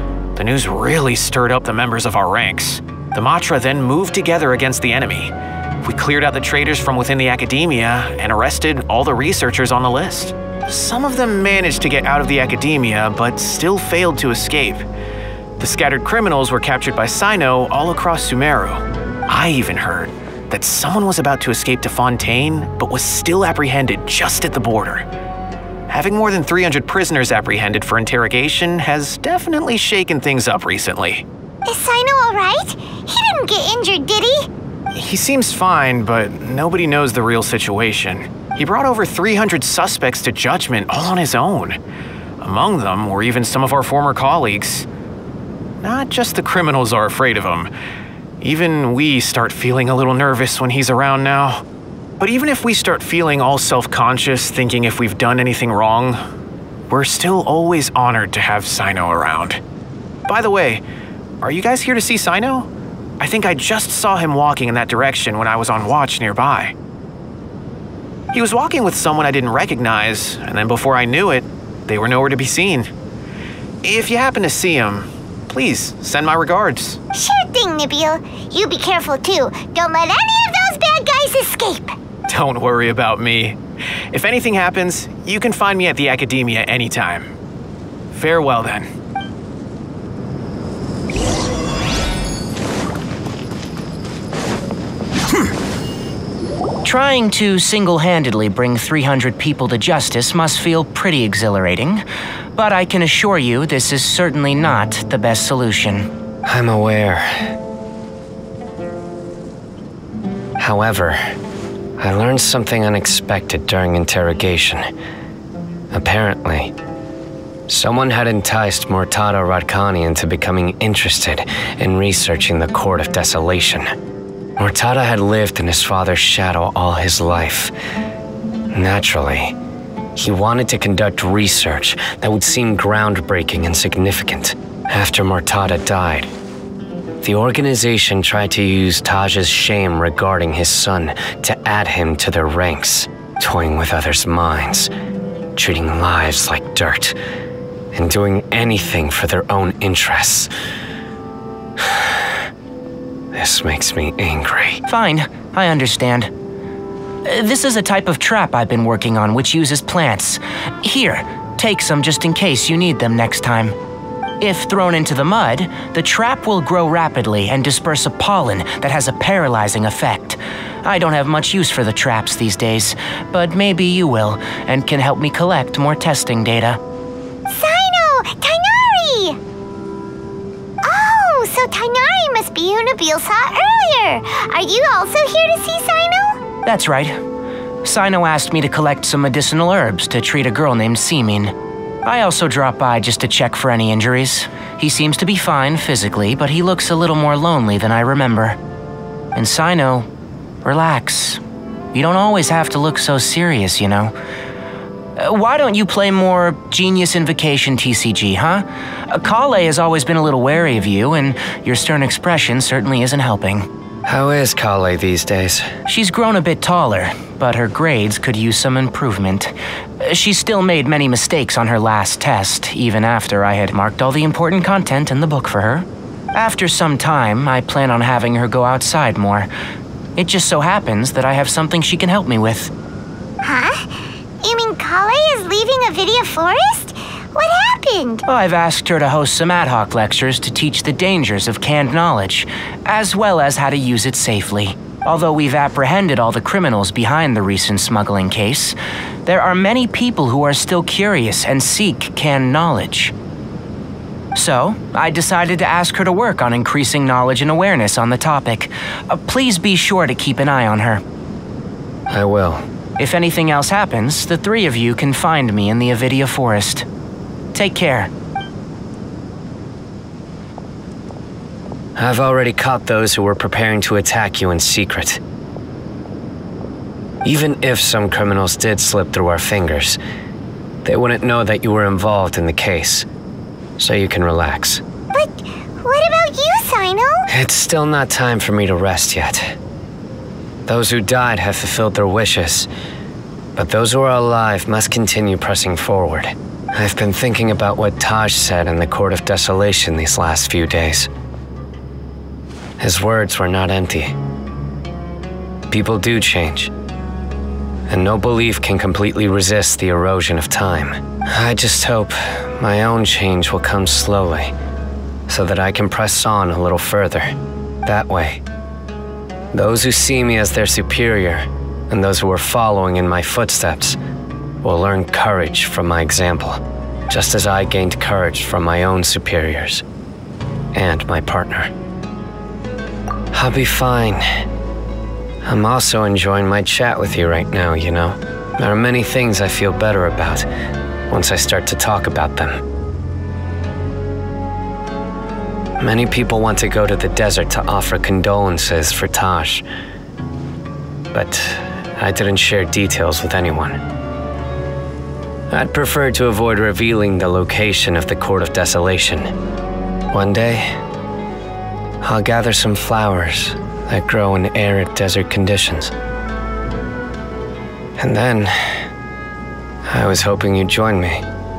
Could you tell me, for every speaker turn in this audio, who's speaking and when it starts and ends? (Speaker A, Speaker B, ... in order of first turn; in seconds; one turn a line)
Speaker A: 0.4-14.8
Speaker A: 15.6-25.1
Speaker A: 25.9-31.3
Speaker B: 31.7-34.5
Speaker A: 34.9-41.8
Speaker A: 42.4-44.9
Speaker A: 45.8-47.7
Speaker A: 48.4-51.6
Speaker A: 52.2-56.2
Speaker A: 56.9-59.6
Speaker A: 60.3-60.8
Speaker A: 61.4-62.7
Speaker A: 63.2-66.7
Speaker A: 68.3-72.9
Speaker A: 73.8-77.0
Speaker B: 77.1-82.0
Speaker A: 82.3-83.6
Speaker A: 84.1-87.3
Speaker A: 88.1-88.9
Speaker C: 96.8-102.0
Speaker C: 102.6-106.1
Speaker D: 106.5-107.6
Speaker D: 110.6-111.4
Speaker D: 112.0-114.9
Speaker D: 115.9-116.7
Speaker D: 117.7-123.9
Speaker D: 124.6-127.7
Speaker D: 128.7-129.6
Speaker D: 130.2-136.3
Speaker D: 137.2-144.9
Speaker D: 145.6-147.2
Speaker D: 147.9-150.5
Speaker D: 151.8-152.3
Speaker D: 153.3-154.8
Speaker C: 154.9-156.3
Speaker C: 157.2-163.8
Speaker C: 164.4-176.8
Speaker B: 177.5-179.4
Speaker B: 180.8-186.4
Speaker C: 186.7-187.2
Speaker C: 187.8-191.5
Speaker C: 192.1-198.6
Speaker C: 199.3-200.1
Speaker C: 200.6-201.4
Speaker C: 201.9-204.1
Speaker C: 205.2-213.7
Speaker D: 214.1-215.7
Speaker C: 215.9-229.5
Speaker C: 230.2-232.7
Speaker B: 233.4-238.2
Speaker C: 238.3-253.1
Speaker C: 254.3-261.0
Speaker D: 262.1-262.6
Speaker C: 263.0-266.9
Speaker C: 267.5-268.1
Speaker D: 272.0-275.2
Speaker D: 277.2-280.0
Speaker D: 280.9-283.1
Speaker D: 283.8-284.8
Speaker B: 285.1-287.3
Speaker D: 287.3-289.6
Speaker D: 290.7-292.7
Speaker D: 293.6-301.1
Speaker D: 302.8-304.1
Speaker D: 305.7-306.7
Speaker D: 307.9-314.6
Speaker D: 315.3-318.4
Speaker D: 319.5-324.0
Speaker D: 324.6-329.8
Speaker D: 330.7-331.7
Speaker D: 333.3-334.5
Speaker D: 335.4-340.5
Speaker D: 341.1-342.6
Speaker D: 345.8-349.6
Speaker D: 351.1-353.8
Speaker D: 355.5-359.3
Speaker D: 360.1-360.8
Speaker D: 362.0-365.9
Speaker D: 368.0-368.9
Speaker D: 369.9-371.2